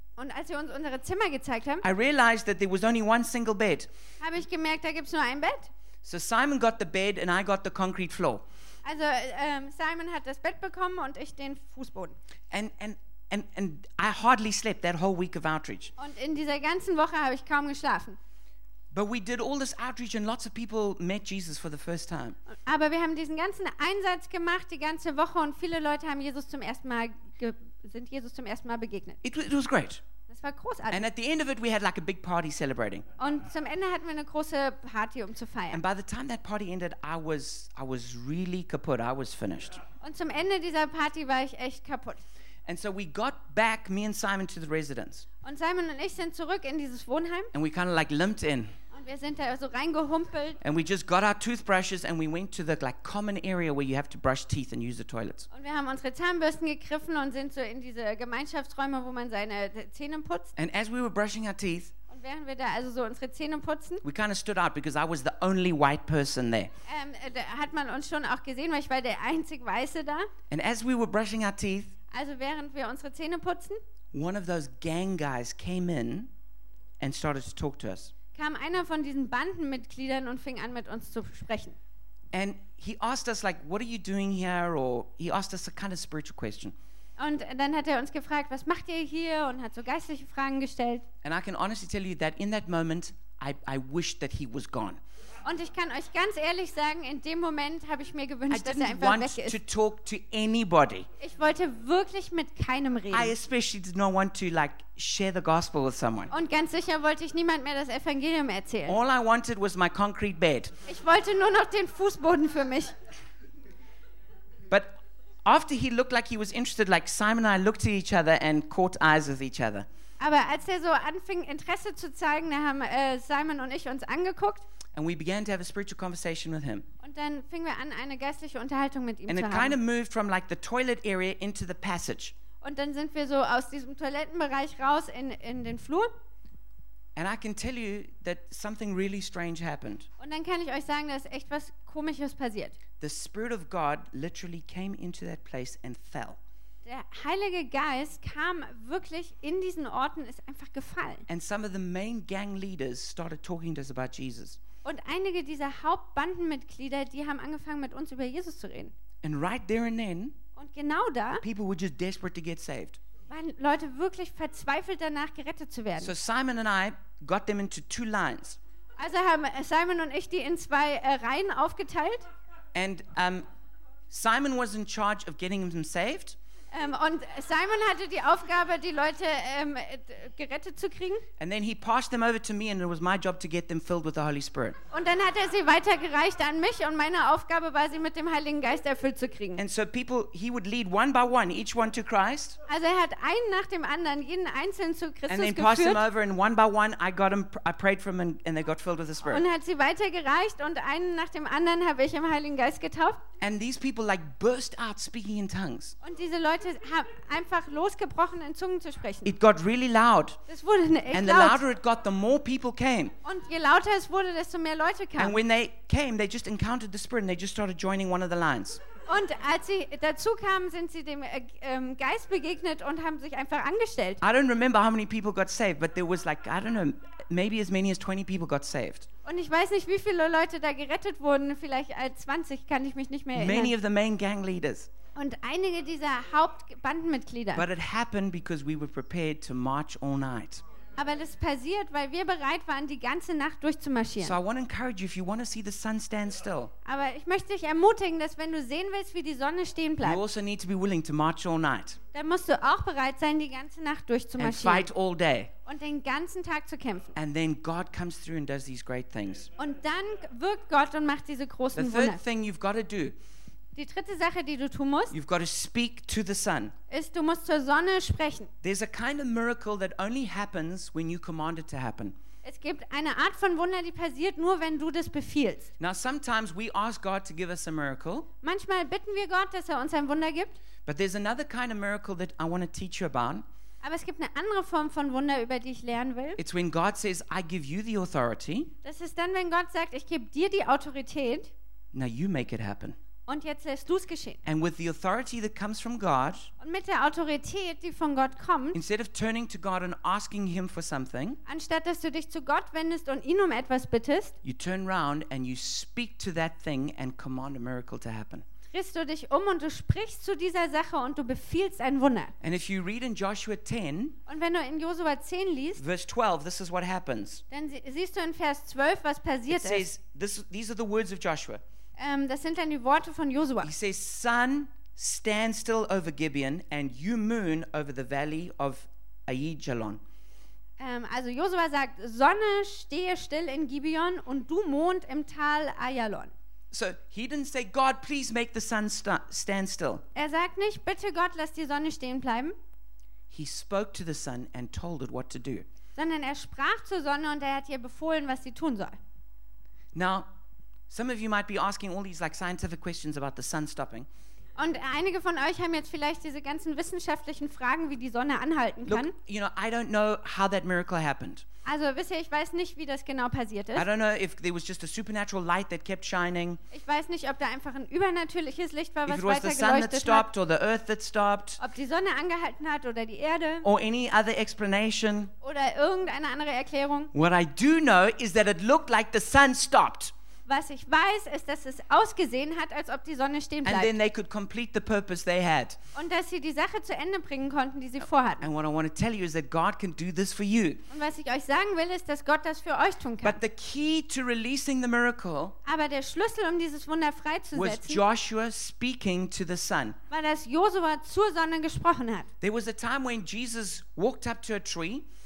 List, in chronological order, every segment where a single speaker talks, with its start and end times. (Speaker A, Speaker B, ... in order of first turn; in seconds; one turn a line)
Speaker A: 0.2-1.8
Speaker B: 1.8-3.9
Speaker A: 4.2-5.7
Speaker B: 6.0-8.4
Speaker A: 8.8-12.2
Speaker B: 12.5-15.9
Speaker A: 16.0-18.2
Speaker B: 18.9-22.4
Speaker A: 22.5-29.2
Speaker B: 29.2-30.0
Speaker A: 30.3-31.1
Speaker B: 30.9-33.0
Speaker A: 33.2-35.8
Speaker B: 35.7-39.8
Speaker A: 40.0-42.2
Speaker B: 42.6-45.2
Speaker A: 45.4-47.5
Speaker B: 47.5-48.7
Speaker A: 48.9-50.6
Speaker B: 50.6-55.5
Speaker A: 55.5-60.5
Speaker B: 60.5-61.9
Speaker A: 62.1-64.0
Speaker B: 64.0-66.7
Speaker A: 66.8-70.3
Speaker B: 70.5-71.9
Speaker A: 72.1-73.8
Speaker B: 74.1-76.3
Speaker B: 77.0-78.1
Speaker A: 78.3-81.8
Speaker B: 82.3-86.7
Speaker A: 87.2-91.0
Speaker B: 91.2-95.0
Speaker A: 95.4-99.6
Speaker B: 98.5-101.1
Speaker A: 101.2-103.3
Speaker B: 103.1-106.3
Speaker A: 106.3-109.0
Speaker B: 108.9-110.7
Speaker A: 110.8-112.9
Speaker B: 114.7-119.9
Speaker A: 120.2-124.7
Speaker B: 124.9-126.8
Speaker A: 127.0-129.8
Speaker B: 129.3-132.3
Speaker A: 132.6-136.1
Speaker B: 137.2-140.1
Speaker A: 140.2-142.8
Speaker B: 143.0-146.4
Speaker A: 146.8-151.2
Speaker B: 151.3-154.6
Speaker A: 154.8-158.9
Speaker B: 159.2-160.4
Speaker A: 160.6-161.4
Speaker B: 161.4-163.0
Speaker A: 163.3-166.1
Speaker B: 166.0-168.6
Speaker A: 169.0-172.3
Speaker B: 172.7-173.4
Speaker B: 174.1-176.4
Speaker A: 176.7-181.2
Speaker B: 181.4-184.8
Speaker A: 184.9-189.6
Speaker B: 189.6-192.6
Speaker A: 192.7-196.0
Speaker B: 195.3-199.4
Speaker A: 199.2-203.2
Speaker B: 203.4-205.9
Speaker A: 206.0-209.3
Speaker B: 209.2-210.4
Speaker A: 210.5-211.6
Speaker B: 211.1-213.1
Speaker A: 213.2-215.4
Speaker B: 215.2-218.8
Speaker A: 219.1-224.2
Speaker B: 224.2-229.1
Speaker A: 229.2-233.7
Speaker B: 233.3-234.9
Speaker A: 235.1-237.7
Speaker B: 237.5-240.6
Speaker A: 241.0-244.4
Speaker B: 244.2-246.7
Speaker A: 246.8-250.2
Speaker B: 250.0-252.0
Speaker A: 252.1-254.9
Speaker B: 254.4-255.5
Speaker A: 255.7-257.1
Speaker B: 257.1-259.5
Speaker A: 259.6-262.2
Speaker B: 261.7-263.1
Speaker A: 263.7-265.1
Speaker B: 265.1-266.7
Speaker A: 266.9-268.5
Speaker B: 268.6-272.1
Speaker A: 272.4-275.7
Speaker B: 275.8-278.3
Speaker A: 278.4-280.6
Speaker B: 280.9-283.4
Speaker A: 283.8-286.4
Speaker B: 286.4-288.7
Speaker A: 288.8-291.5
Speaker B: 291.9-293.0
Speaker A: 293.3-294.4
Speaker B: 294.4-296.5
Speaker A: 296.6-298.8
Speaker B: 298.7-301.4
Speaker A: 301.4-304.4
Speaker B: 304.4-308.4
Speaker A: 308.7-312.3
Speaker B: 312.4-314.2
Speaker A: 314.3-315.8
Speaker B: 315.8-317.4
Speaker A: 317.5-319.9
Speaker B: 319.5-321.6
Speaker A: 322.0-323.7
Speaker B: 323.6-330.0
Speaker A: 330.8-336.3
Speaker B: 336.7-340.0
Speaker A: 340.1-342.5
Speaker B: 343.3-345.7
Speaker A: 345.9-349.0
Speaker B: 349.9-350.3
Speaker B: 350.9-354.1
Speaker A: 354.6-359.1
Speaker B: 358.9-361.4
Speaker A: 361.6-363.9
Speaker B: 363.7-366.6
Speaker A: 366.7-370.3
Speaker B: 369.1-371.6
Speaker A: 371.6-373.7
Speaker B: 373.6-375.3
Speaker A: 375.4-377.1
Speaker B: 377.1-380.1
Speaker A: 380.5-383.9
Speaker B: 383.6-385.8
Speaker A: 385.9-388.5
Speaker B: 388.4-390.8
Speaker A: 390.9-393.4
Speaker B: 393.2-395.6
Speaker A: 395.6-398.0
Speaker B: 397.5-400.0
Speaker A: 400.1-402.3
Speaker B: 402.4-405.1